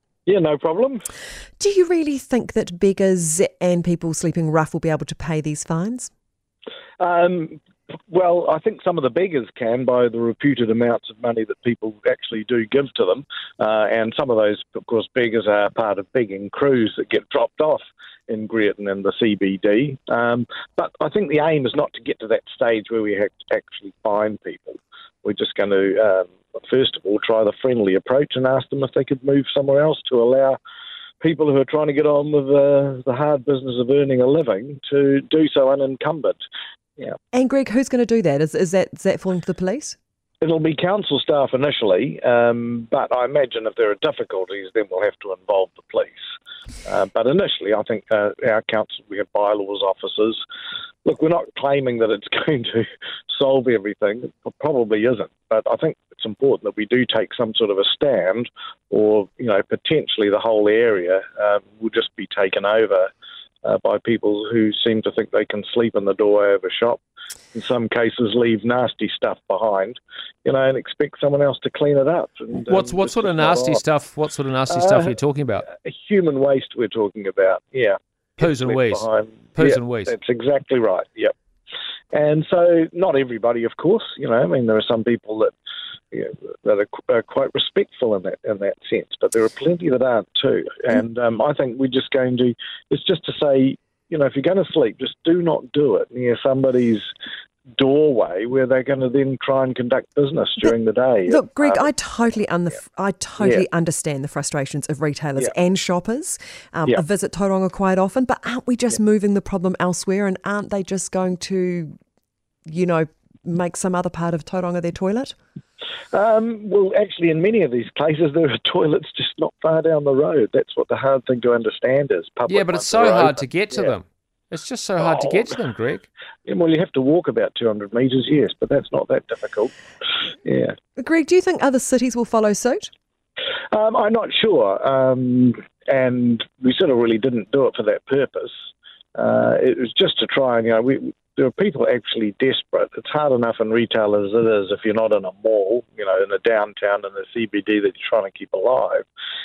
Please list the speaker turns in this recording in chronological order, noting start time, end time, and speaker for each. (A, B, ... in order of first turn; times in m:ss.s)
0:00.2-0:01.0 A
0:01.6-0:06.1 B
0:07.0-0:07.6 A
0:08.1-0:30.6 A
0:31.2-0:36.4 A
0:37.3-0:40.0 B
0:40.4-0:46.2 A
0:46.8-0:50.4 A
0:51.0-1:03.1 A
1:03.6-1:07.0 A
1:07.5-1:13.8 A
1:12.6-1:15.7 C
1:14.7-1:15.1 A
1:15.6-1:21.3 A
1:18.4-1:20.1 C
1:22.1-1:25.5 A
1:26.1-1:37.0 A
1:37.8-1:41.9 A
1:41.3-1:51.9 B
1:43.4-1:43.6 A
1:52.7-1:55.4 B
1:56.1-2:03.9 A
2:02.5-2:06.1 C
2:06.4-2:09.7 A
2:10.4-2:10.7 A
2:11.0-2:12.9 B
2:13.7-2:18.5 A
2:19.1-2:29.0 A